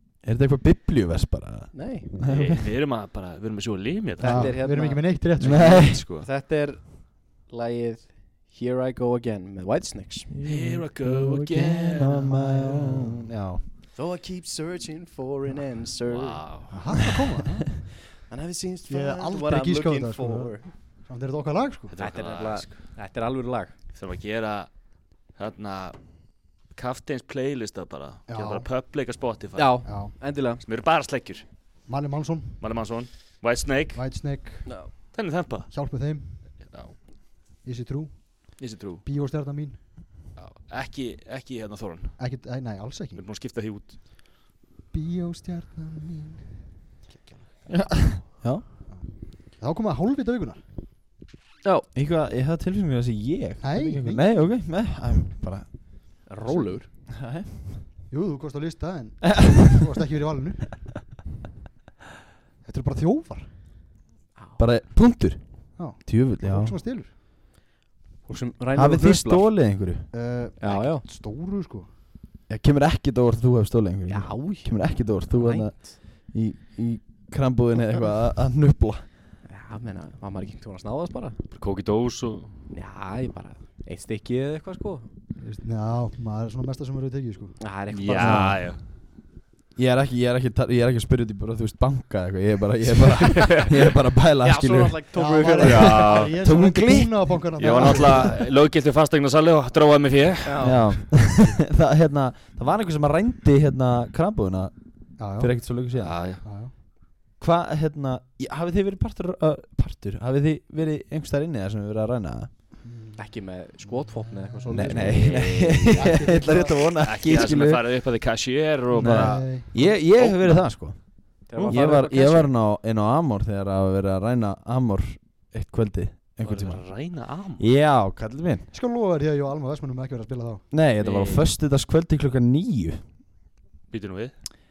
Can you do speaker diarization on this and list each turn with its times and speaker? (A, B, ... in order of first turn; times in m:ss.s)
0:00.2-0:02.6 A
0:01.7-0:02.1 B
0:02.3-0:04.5 C
0:04.2-0:05.2 B
0:04.2-0:05.9 D
0:05.4-0:06.3 C
0:05.4-0:06.0 A
0:06.0-0:10.3 B
0:10.3-0:13.6 A
0:10.4-0:12.8 C
0:13.9-0:16.4 B
0:16.1-0:16.8 C
0:16.7-0:18.0 D
0:18.3-0:20.7 B
0:18.9-0:21.9 D
0:21.9-0:22.9 C
0:22.0-0:23.7 B
0:23.9-0:24.7 C
0:25.2-0:26.1 C
0:26.6-0:30.0 C
0:28.3-0:28.7 D
0:29.5-0:30.6 B
0:29.8-0:30.1 D
0:30.6-0:31.4 C
0:31.9-0:32.6 D
0:32.6-0:34.0 C
0:33.9-0:35.1 D
0:35.1-0:35.7 C
0:35.7-0:36.7 D
0:36.7-0:36.9 C
0:37.6-0:39.8 D
0:38.6-0:39.0 C
0:40.4-0:42.2 C
0:42.2-0:43.2 D
0:43.2-0:44.0 C
0:44.9-0:48.0 D
0:47.7-0:48.6 A
0:48.9-0:50.6 D
0:51.9-0:56.2 A
0:53.6-0:54.2 D
0:56.2-0:56.9 B
0:56.5-0:56.7 D
0:57.2-0:57.8 A
0:58.1-1:01.0 D
1:02.6-1:03.5 D
1:04.6-1:06.8 A
1:05.8-1:07.1 D
1:08.3-1:09.5 B
1:08.7-1:10.1 A
1:10.1-1:11.9 D
1:10.6-1:11.0 B
1:12.5-1:19.0 A
1:14.1-1:14.7 B
1:15.3-1:15.9 B
1:19.5-1:21.4 B
1:21.5-1:22.5 C
1:22.7-1:25.1 B
1:25.4-1:27.6 D
1:27.6-1:28.5 B
1:27.9-1:28.8 C
1:28.2-1:28.5 D
1:28.2-1:28.6 A
1:29.8-1:35.0 A
1:33.2-1:33.7 C
1:34.4-1:36.1 B
1:35.1-1:38.4 D
1:35.6-1:36.3 C
1:36.1-1:38.2 A
1:37.6-1:40.7 C
1:40.4-1:40.9 B
1:40.6-1:46.2 A
1:45.2-1:45.5 D
1:46.0-1:46.4 C
1:46.4-1:46.7 D
1:47.4-1:52.5 A
1:52.8-1:53.2 D
1:53.2-1:55.4 B
1:53.8-1:54.9 D
1:54.7-1:57.8 A
1:55.0-1:56.1 C
1:55.9-1:56.9 D
1:56.8-2:00.6 C
1:59.0-1:59.9 D
1:59.0-2:06.8 A
2:01.4-2:02.5 B
2:01.5-2:01.9 C
2:06.4-2:07.6 C
2:07.6-2:08.7 A
2:08.7-2:10.7 D
2:10.7-2:13.0 A
2:11.0-2:11.5 C
2:13.9-2:14.3 C